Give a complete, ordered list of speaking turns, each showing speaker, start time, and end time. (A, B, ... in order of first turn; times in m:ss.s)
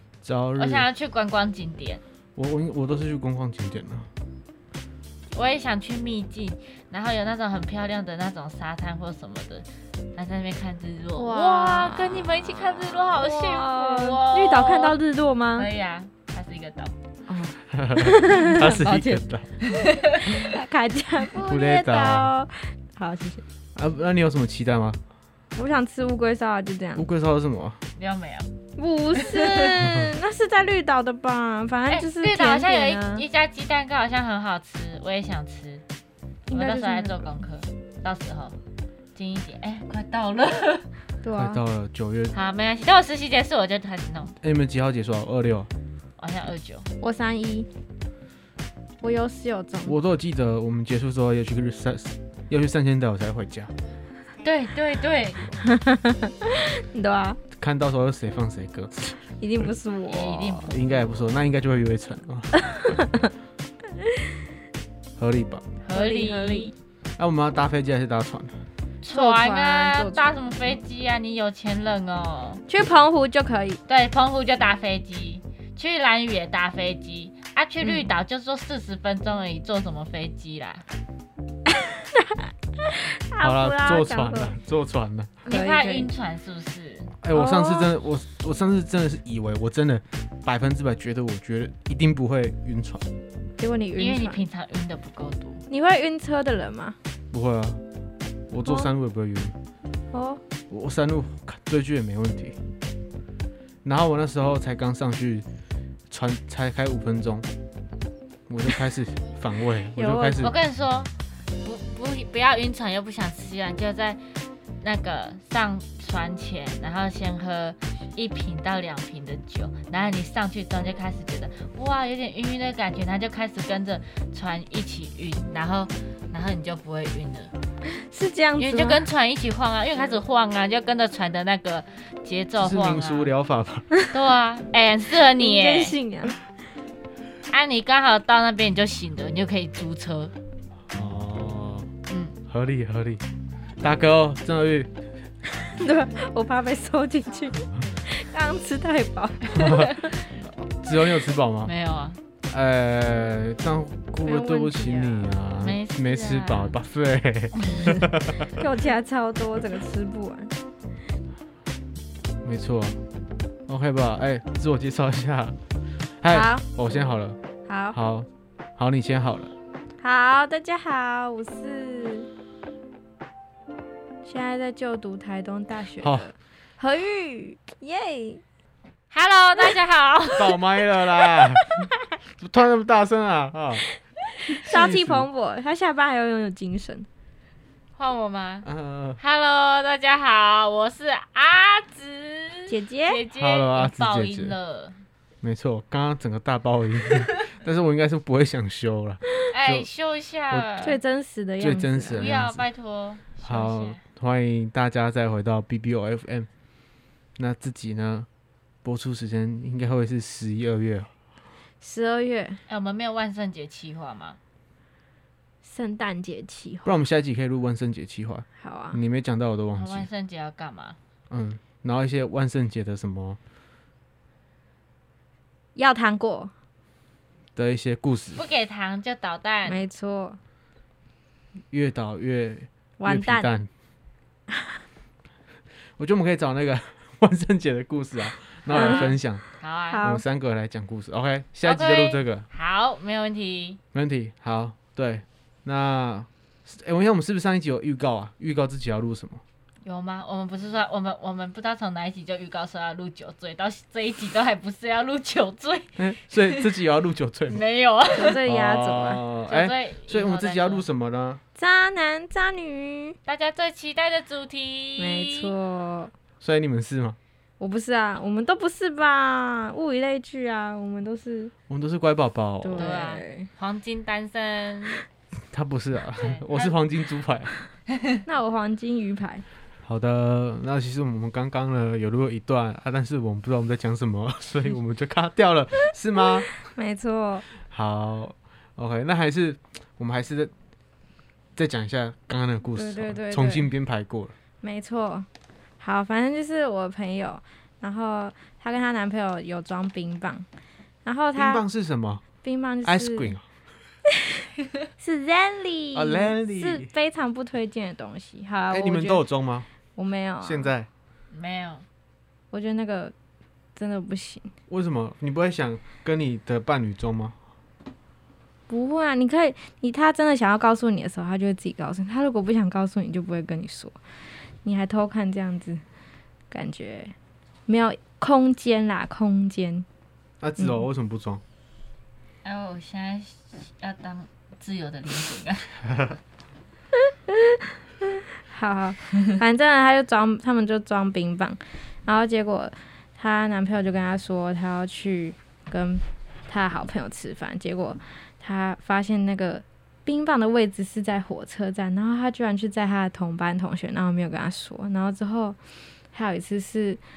0:00.2-0:00.9 A
0:00.6-0:02.0 B
0:02.4-0:04.1 A
0:05.3-0:15.0 B
0:11.2-0:12.3 C
0:13.1-0:15.7 C
0:15.6-0:17.0 B
0:17.3-0:19.2 C
0:17.7-0:19.5 A
0:19.6-0:20.5 B
0:20.4-0:23.4 C
0:21.4-0:22.3 A
0:23.8-0:25.0 A
0:25.6-0:27.0 C
0:27.0-0:27.8 A
0:28.0-0:28.5 B
0:28.8-0:33.2 C
0:29.2-0:29.8 B
0:31.9-0:35.8 B
0:36.5-0:38.6 B
0:36.5-0:37.4 C
0:39.2-0:40.9 B
0:41.2-0:41.6 C
0:41.3-0:42.3 A
0:42.3-0:44.4 B
0:44.4-0:45.7 A
0:46.2-0:46.9 B
0:47.0-0:47.7 C
0:49.0-0:50.0 C
0:49.9-0:53.7 A
0:54.4-0:55.5 B
0:55.6-0:57.4 C
0:57.6-0:59.2 A
0:59.4-1:00.8 C
1:00.1-1:01.0 B
1:00.7-1:02.6 A
1:02.6-1:03.3 C
1:05.2-1:05.7 A
1:05.8-1:06.7 B
1:05.9-1:06.7 C
1:07.2-1:08.6 A
1:09.0-1:12.6 B
1:09.1-1:10.3 C
1:12.7-1:13.8 C
1:13.9-1:20.8 B
1:21.7-1:24.6 C
1:23.4-1:25.4 A
1:25.4-1:26.1 C
1:25.5-1:27.1 B
1:27.2-1:33.1 A
1:27.3-1:27.9 C
1:33.6-1:34.4 C
1:34.0-1:35.6 B
1:35.7-1:37.0 C
1:37.3-1:37.8 A
1:38.5-1:39.6 A
1:40.1-1:40.4 C
1:40.7-1:42.6 A
1:43.8-1:45.4 A
1:46.1-1:47.5 A
1:48.5-1:50.6 A
1:50.0-1:50.5 C
1:50.4-1:54.2 B
1:54.8-2:07.5 B
2:07.9-2:09.0 C
2:08.6-2:13.3 B
2:12.6-2:13.9 A
2:14.1-2:15.9 B
2:15.4-2:16.4 C
2:17.5-2:20.3 B
2:20.9-2:21.9 A
2:22.1-2:22.4 B
2:22.5-2:23.2 A
2:23.8-2:24.9 A
2:25.7-2:30.2 C
2:29.5-2:31.7 A
2:31.6-2:32.2 B
2:32.5-2:38.6 A
2:34.2-2:35.3 C
2:35.6-2:36.8 B
2:38.6-2:40.5 C
2:42.4-2:43.0 A
2:43.7-2:45.6 A
2:46.2-2:47.4 A
2:46.3-2:47.0 C
2:47.7-2:48.0 C
2:47.9-2:49.5 A
2:50.0-2:52.3 C
2:54.2-2:58.4 C
2:56.0-2:56.3 A
2:59.1-3:00.5 B
3:00.4-3:01.8 A
3:01.2-3:01.9 C
3:02.4-3:03.8 A
3:04.4-3:07.1 C
3:04.6-3:05.3 A
3:08.0-3:08.7 B
3:08.6-3:09.2 A
3:09.2-3:15.0 B
3:12.7-3:13.2 C
3:13.3-3:14.5 A
3:15.4-3:19.9 A
3:19.5-3:20.9 B
3:20.8-3:22.2 C
3:21.6-3:22.6 A
3:22.1-3:24.0 B
3:23.4-3:26.5 A
3:27.4-3:28.3 A
3:28.8-3:31.1 A
3:31.8-3:32.6 C
3:32.7-3:34.4 B
3:35.6-3:36.9 C
3:36.8-3:40.1 A
3:38.6-3:39.0 C
3:39.8-3:41.0 B
3:41.3-3:43.4 A
3:45.8-3:46.5 C
3:47.6-3:48.4 A
3:48.4-3:49.8 B
3:49.7-3:50.4 C
3:51.7-3:53.7 A
3:53.0-3:53.5 C
3:54.5-3:54.8 C
3:56.0-3:59.4 A
3:58.7-3:59.1 C
3:58.7-4:00.0 B
3:59.9-4:00.2 C
4:00.0-4:02.5 A
4:01.6-4:03.8 B
4:03.9-4:09.4 A
4:09.8-4:16.6 B
4:16.0-4:17.6 A
4:17.5-4:18.4 B
4:18.1-4:19.2 C
4:18.4-4:21.4 A
4:19.5-4:20.8 B
4:21.6-4:23.2 C
4:23.3-4:25.5 B
4:25.0-4:26.1 C
4:26.4-4:27.2 A
4:27.6-4:31.5 C
4:31.7-4:33.0 A
4:32.6-4:33.5 C
4:32.8-4:35.0 B
4:35.5-4:37.5 A
4:36.2-4:36.7 B
4:37.9-4:38.2 B
4:38.2-4:39.4 C
4:39.8-4:46.5 A
4:46.6-4:47.4 C
4:47.7-4:50.5 A
4:51.6-4:54.3 A
4:52.8-4:53.7 C
4:54.6-4:55.3 C
4:55.8-5:00.4 C
5:01.0-5:01.6 C
5:01.4-5:02.2 A
5:02.4-5:03.3 C
5:02.8-5:03.4 A
5:05.0-5:09.2 C
5:05.9-5:06.9 A
5:08.7-5:09.7 A
5:10.0-5:10.7 C
5:10.4-5:10.9 A
5:11.3-5:11.8 B
5:12.5-5:13.1 C
5:13.8-5:14.5 C
5:14.7-5:17.4 A
5:18.7-5:24.0 C
5:24.6-5:25.8 C
5:26.5-5:27.1 C
5:27.7-5:29.9 C
5:30.4-5:31.4 A
5:30.6-5:30.8 C
5:32.4-5:35.7 B
5:35.8-5:36.2 A
5:37.3-5:55.6 C
5:56.1-5:57.0 C